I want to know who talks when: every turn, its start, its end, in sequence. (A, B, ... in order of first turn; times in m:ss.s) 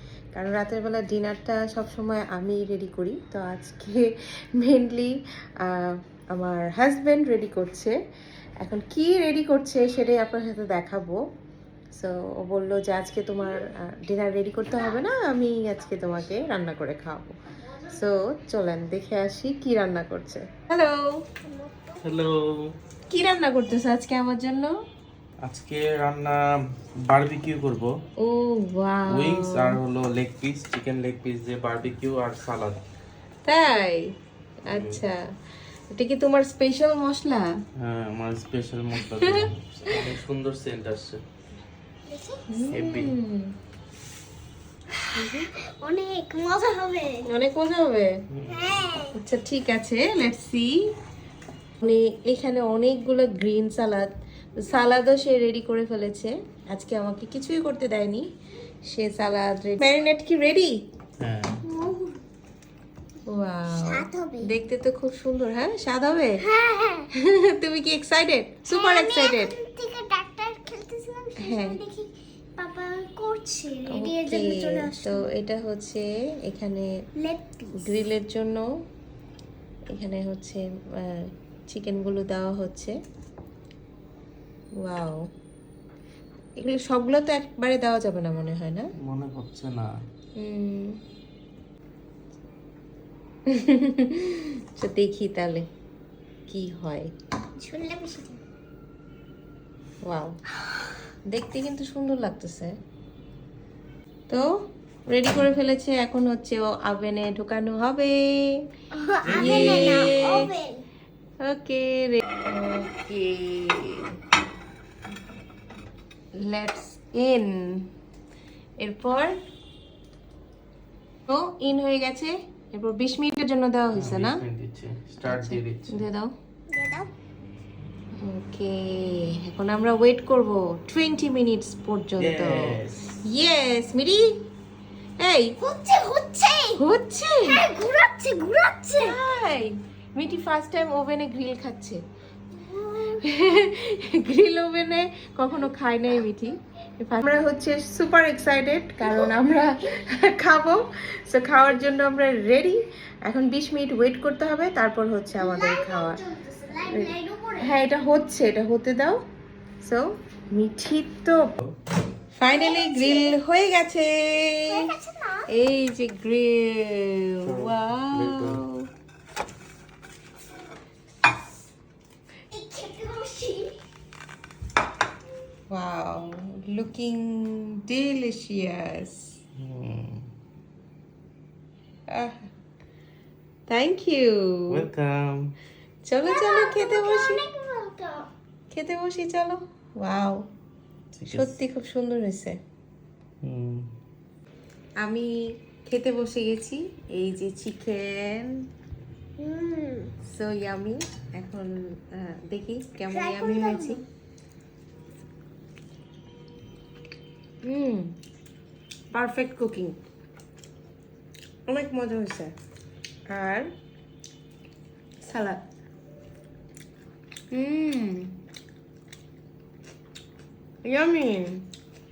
0:00.3-0:08.0 A
0:08.6-0:11.2 A
0:11.9-0:17.3 A
0:17.8-0:21.0 A
0:21.4-0:22.0 B
0:22.0-0:22.7 C
0:23.1-0:24.8 A
0:25.4-0:26.4 C
0:27.0-0:27.9 C
0:28.2-0:29.8 A
0:29.1-0:32.8 C
0:33.4-0:34.1 A
0:34.7-0:35.2 A
0:34.7-0:35.0 C
0:35.9-0:37.5 A
0:37.8-0:41.2 C
0:39.0-0:40.0 A
0:42.1-0:42.5 B
0:42.5-0:43.5 A
0:42.7-0:43.2 C
0:44.9-0:47.2 B
0:45.1-0:45.5 A
0:47.3-0:48.1 A
0:48.3-0:48.7 C
0:48.5-0:49.1 B
0:49.1-0:50.8 A
0:51.8-0:58.2 A
0:58.9-1:00.8 A
1:01.2-1:01.6 C
1:01.6-1:02.2 B
1:03.3-1:06.4 A
1:03.7-1:04.5 B
1:06.4-1:07.1 B
1:07.2-1:09.5 A
1:08.7-1:15.2 B
1:11.4-1:11.8 A
1:13.9-1:16.9 A
1:17.2-1:18.0 B
1:17.8-1:18.6 A
1:19.9-1:22.9 A
1:24.8-1:25.2 A
1:26.6-1:28.9 A
1:29.0-1:29.9 C
1:30.4-1:31.0 A
1:33.5-1:35.7 A
1:36.5-1:37.1 A
1:37.6-1:38.4 B
1:40.0-1:40.3 A
1:41.3-1:42.7 A
1:45.1-1:48.6 A
1:48.9-1:50.8 B
1:49.2-1:50.4 A
1:49.3-1:50.0 C
1:51.4-1:54.1 A
1:56.4-1:57.9 A
1:58.8-1:59.4 A
2:01.3-2:04.4 A
2:03.9-2:06.0 C
2:05.2-2:06.3 A
2:06.7-2:07.1 B
2:08.2-2:14.2 A
2:12.2-2:13.2 C
2:15.2-2:15.5 A
2:15.6-2:16.8 B
2:16.8-2:17.6 A
2:17.4-2:19.1 B
2:19.0-2:22.0 A
2:22.5-2:23.2 B
2:23.2-2:36.2 A
2:29.0-2:29.3 B
2:35.3-2:37.7 B
2:36.8-2:39.2 A
2:39.8-2:41.4 A
2:42.4-2:44.9 A
2:42.5-2:43.4 B
2:44.7-2:45.5 B
2:45.5-2:48.9 A
2:47.4-2:48.6 C
2:52.5-2:53.8 B
2:55.7-2:59.4 A
2:59.6-3:00.3 C
3:02.1-3:02.4 A
3:03.7-3:04.8 A
3:04.7-3:05.5 C
3:06.0-3:07.4 A
3:06.2-3:08.3 B
3:08.7-3:10.4 A
3:11.1-3:11.5 C
3:11.3-3:12.6 A
3:13.4-3:13.9 C
3:15.0-3:18.6 A
3:19.4-3:20.1 B
3:20.3-3:24.0 A
3:23.1-3:24.0 B
3:27.6-3:28.1 A
3:29.1-3:30.0 A
3:31.7-3:32.5 A
3:33.3-3:33.7 A
3:35.2-3:35.6 A
3:37.5-3:38.3 A
3:40.8-3:41.7 A